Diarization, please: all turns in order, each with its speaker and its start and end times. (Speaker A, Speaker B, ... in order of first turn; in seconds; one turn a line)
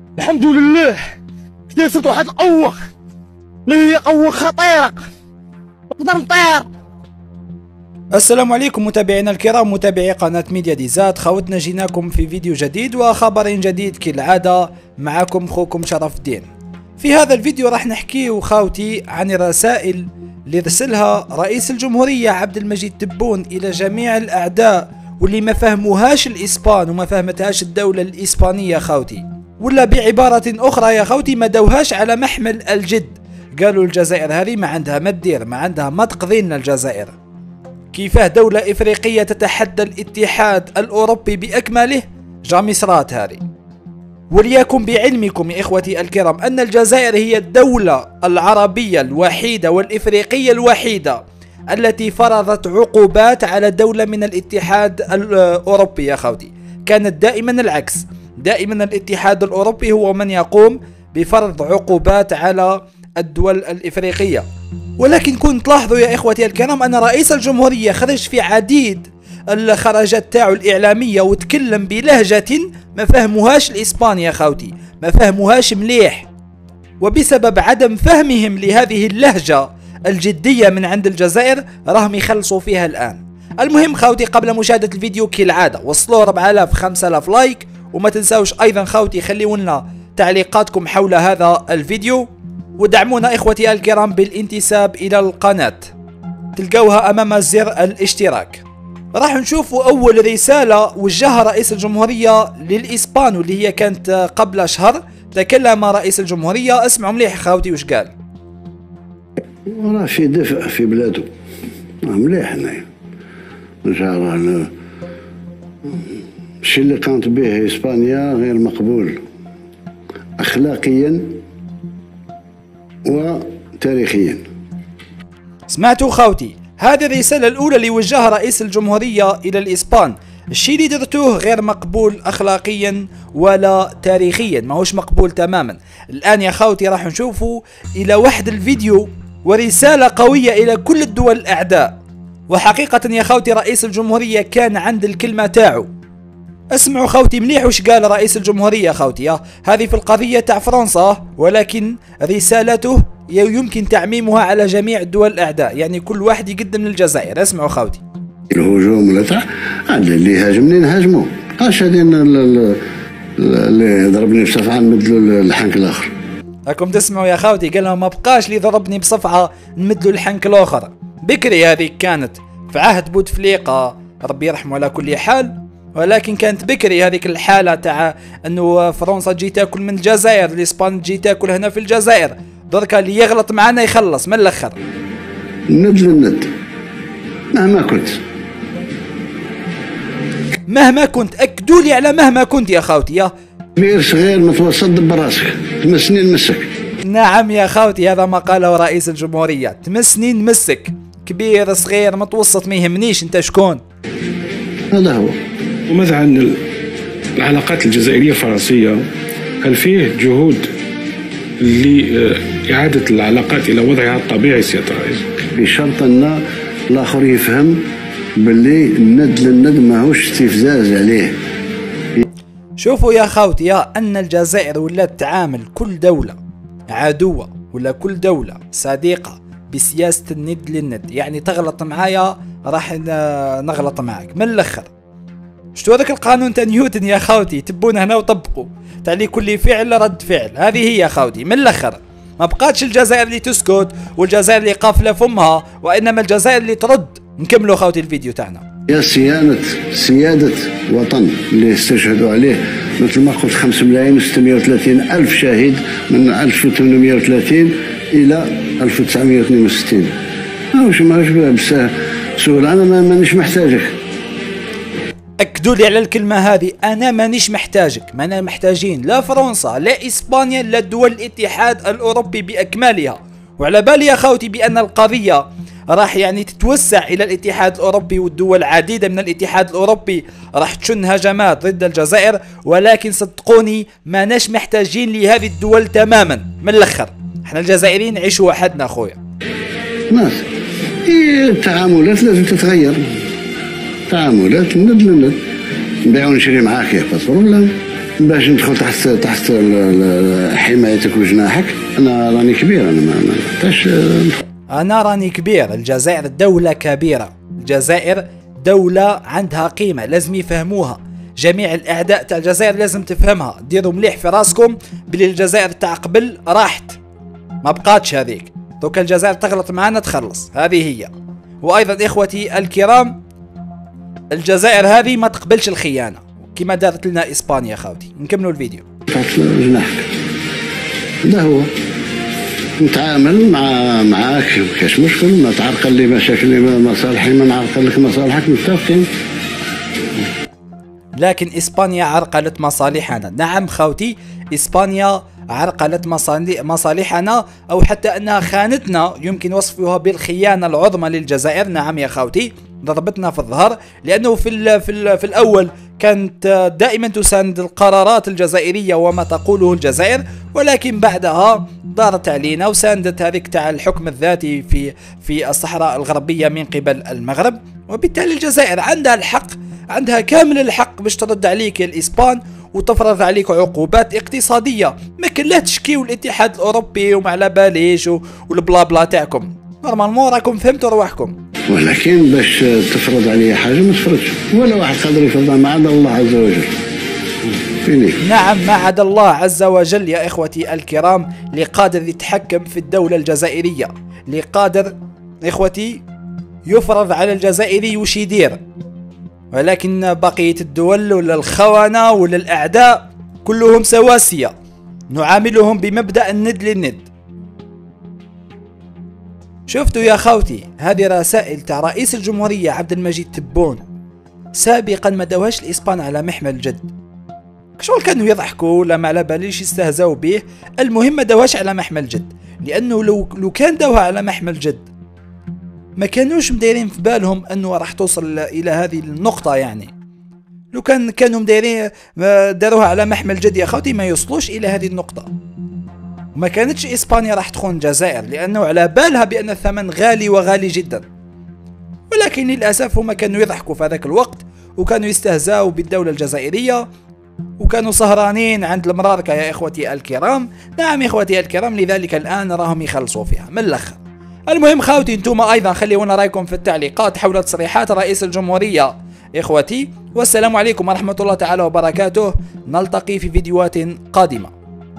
Speaker A: 0.2-1.1
Speaker A: 1.7-2.9
Speaker A: 3.7-5.1
Speaker A: 5.9-6.7
Speaker B: 8.1-16.5
Speaker B: 17.0-37.2
Speaker B: 37.9-43.4
Speaker B: 44.3-51.2
Speaker B: 51.7-64.5
Speaker B: 65.0-76.3
Speaker B: 77.0-92.3
Speaker B: 92.8-95.9
Speaker B: 96.6-108.1
Speaker C: 109.7-111.3
Speaker C: 112.0-112.8
Speaker C: 113.8-114.7
Speaker C: 116.6-119.2
Speaker C: 120.4-121.4
Speaker C: 123.1-124.4
Speaker B: 125.7-141.9
Speaker B: 142.5-145.9
Speaker B: 146.7-158.0
Speaker C: 158.5-162.8
Speaker C: 163.4-166.1
Speaker B: 166.7-184.8
Speaker C: 185.7-186.5
Speaker C: 187.5-188.2
Speaker B: 190.7-193.3
Speaker C: 193.8-196.7
Speaker B: 197.0-203.8
Speaker C: 204.9-205.3
Speaker D: 205.9-206.6
Speaker D: 207.4-209.0
Speaker D: 209.6-210.7
Speaker D: 211.6-215.4
Speaker C: 215.5-216.4
Speaker C: 216.9-217.8
Speaker C: 218.4-221.3
Speaker B: 222.8-226.4
Speaker B: 226.9-234.9
Speaker B: 235.8-248.7
Speaker C: 248.9-260.1
Speaker C: 260.7-263.9
Speaker B: 265.4-289.2
Speaker C: 290.1-290.4
Speaker C: 291.1-293.0
Speaker C: 294.1-295.4
Speaker C: 296.1-304.4
Speaker B: 304.7-317.0
Speaker B: 317.6-323.2
Speaker B: 324.3-328.8
Speaker C: 329.1-330.1
Speaker C: 331.2-331.7
Speaker C: 332.8-339.1
Speaker B: 341.2-381.4
Speaker C: 381.7-386.7
Speaker C: 387.8-388.2
Speaker B: 388.2-396.0
Speaker B: 396.7-398.6
Speaker B: 399.5-404.5
Speaker B: 405.1-407.1
Speaker B: 409.7-413.8
Speaker B: 414.6-416.9
Speaker B: 417.8-424.9
Speaker B: 426.0-429.9
Speaker B: 430.7-435.3
Speaker B: 436.4-441.1
Speaker B: 442.1-446.8
Speaker B: 447.6-464.5